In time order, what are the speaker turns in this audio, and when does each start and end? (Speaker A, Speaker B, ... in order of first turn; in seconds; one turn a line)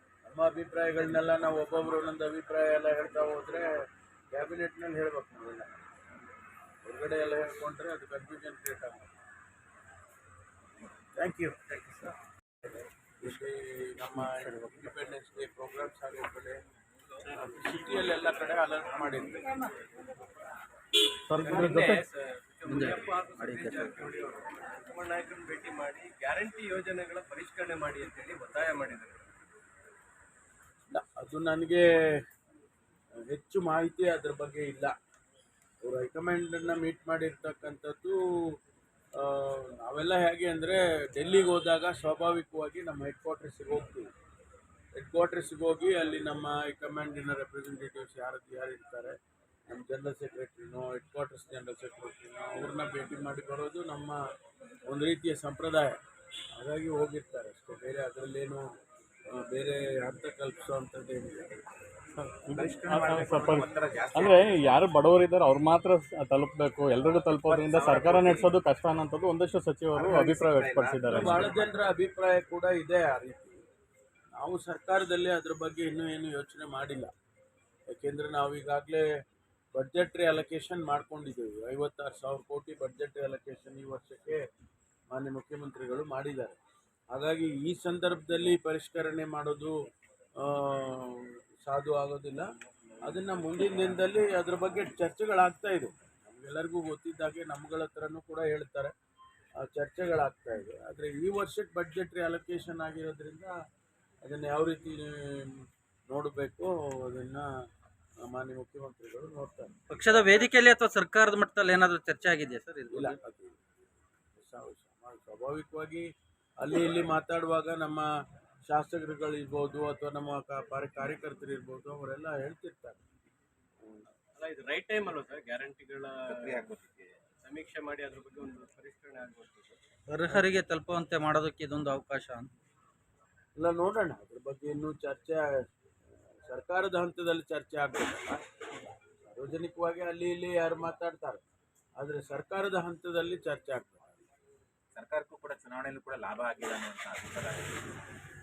Speaker A: 0.2-3.7
Speaker A: 4.3-5.7
Speaker A: 6.8-9.1
Speaker A: 11.1-11.8
Speaker B: 11.8-12.1
Speaker A: 13.2-16.6
Speaker A: 17.3-19.6
Speaker C: 21.3-22.0
Speaker D: 21.4-29.2
Speaker B: 22.7-23.9
Speaker A: 30.9-31.9
Speaker A: 33.3-34.9
Speaker A: 35.8-38.5
Speaker A: 39.2-44.1
Speaker A: 44.9-49.1
Speaker A: 49.7-54.2
Speaker A: 54.9-56.0
Speaker A: 56.5-58.6
Speaker A: 59.3-61.6
Speaker C: 62.2-71.5
Speaker E: 62.5-64.8
Speaker E: 67.5-68.5
Speaker E: 69.9-71.8
Speaker A: 71.1-73.6
Speaker A: 74.3-77.1
Speaker A: 77.9-79.1
Speaker A: 79.7-84.4
Speaker A: 85.1-86.6
Speaker A: 87.1-89.7
Speaker A: 90.4-92.4
Speaker A: 93.0-98.9
Speaker A: 99.6-103.5
Speaker A: 104.2-107.5
Speaker A: 108.2-109.8
Speaker B: 109.9-113.2
Speaker A: 112.9-113.6
Speaker A: 114.4-116.1
Speaker A: 116.6-118.1
Speaker A: 118.7-123.0
Speaker D: 124.3-129.8
Speaker E: 126.3-127.0
Speaker B: 130.1-132.5
Speaker A: 133.6-135.6
Speaker A: 136.4-138.4
Speaker A: 139.2-141.4
Speaker A: 142.0-144.2
Speaker E: 144.9-147.8